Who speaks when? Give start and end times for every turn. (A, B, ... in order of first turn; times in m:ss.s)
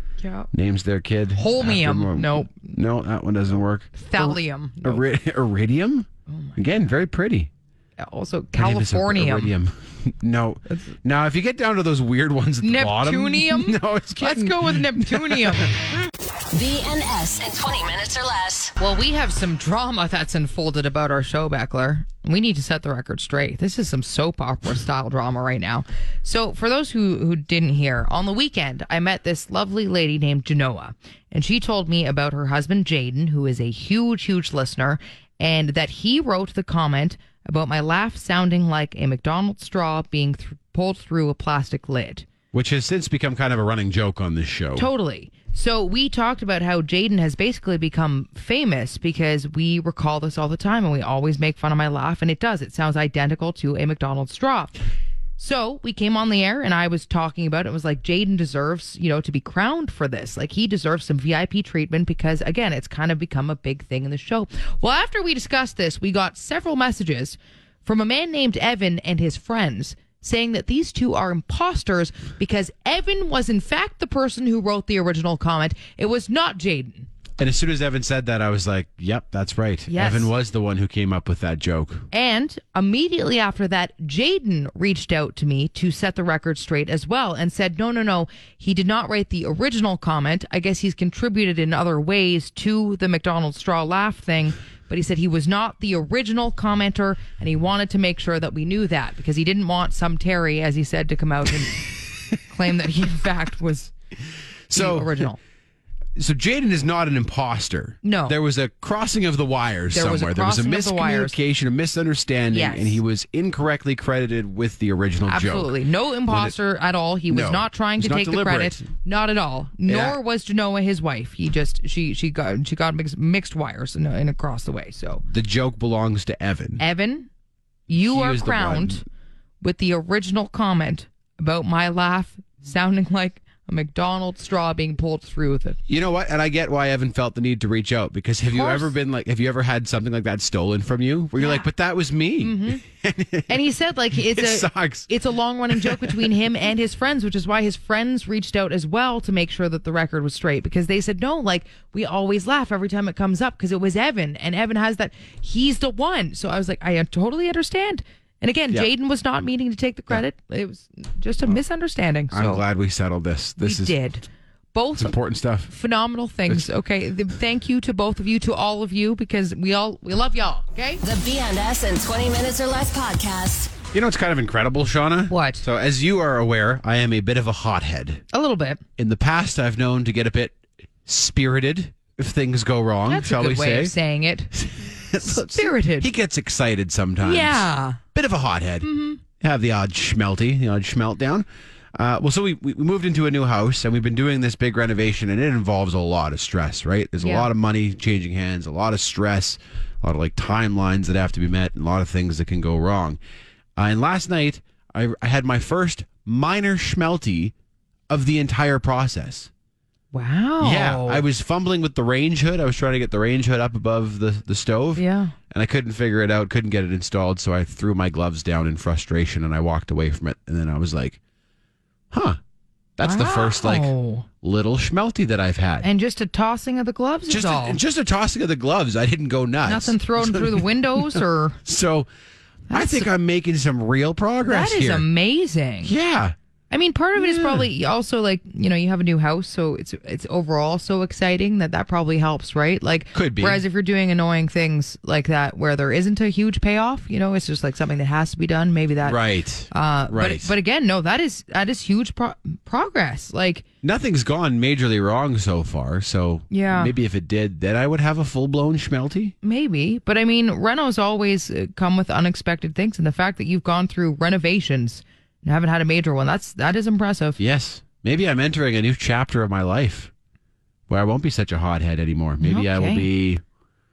0:00.2-0:00.5 A
0:00.5-0:07.5 B
0:01.4-0:02.7 A
0:04.0-0:05.0 A
0:06.3-0:06.9 A
0:08.0-0:09.5 A
0:08.6-0:15.7 B
0:10.7-0:10.9 A
0:12.6-0:15.7 A
0:16.5-0:18.7 C
0:18.8-0:42.3 A
0:42.5-0:44.9 B
0:44.8-0:54.7 A
0:55.4-1:17.1 A
1:17.4-1:22.1 B
1:19.9-1:20.3 A
1:22.1-1:43.9 A
1:44.7-1:45.3 B
1:44.7-1:45.4 A
1:46.2-1:55.7 B
1:48.0-1:48.3 A
1:49.9-1:51.4 A
1:52.5-1:53.0 A
1:55.3-2:05.2 A
1:56.3-1:56.5 B
1:57.3-1:58.8 B
1:59.8-2:00.2 B
2:05.3-2:06.8 B
2:06.8-2:07.3 A
2:07.9-2:09.0 A
2:07.9-2:09.0 B
2:09.6-2:15.8 A
2:15.9-2:25.1 B
2:18.5-2:18.9 A
2:21.4-2:21.7 A
2:22.4-2:22.8 A
2:23.5-2:42.6 A
2:25.7-2:26.4 B
2:42.3-2:43.9 B
2:43.6-2:45.2 A
2:45.0-2:45.7 B
2:45.7-2:51.0 A
2:51.0-2:53.7 C
2:53.9-2:58.2 B
2:55.3-2:55.6 A
2:58.3-2:58.8 A
2:59.0-3:03.9 B
3:03.1-3:04.5 A
3:04.5-3:23.2 B
3:05.2-3:06.1 A
3:07.2-3:08.0 A
3:08.8-3:09.2 A
3:17.2-3:17.5 A
3:23.8-3:27.5 B
3:28.1-3:29.5 B
3:30.1-3:31.2 A
3:30.6-3:41.2 B
3:35.0-3:35.4 A
3:42.1-3:42.4 B
3:43.0-3:45.9 B
3:43.0-3:44.3 A
3:45.8-3:47.8 A
3:47.3-3:52.1 B
3:49.6-3:51.6 A
3:52.7-3:53.1 A
3:52.7-3:55.0 B
3:54.4-3:55.9 A
3:55.8-3:56.3 B
3:56.7-4:09.2 A
3:57.2-3:57.7 B
4:03.1-4:03.6 B
4:09.0-4:10.5 B
4:09.7-4:13.6 A
4:13.8-4:19.3 B
4:16.5-4:16.9 A
4:19.4-4:27.4 A
4:27.4-4:30.1 B
4:30.9-4:33.4 B
4:32.4-4:33.1 A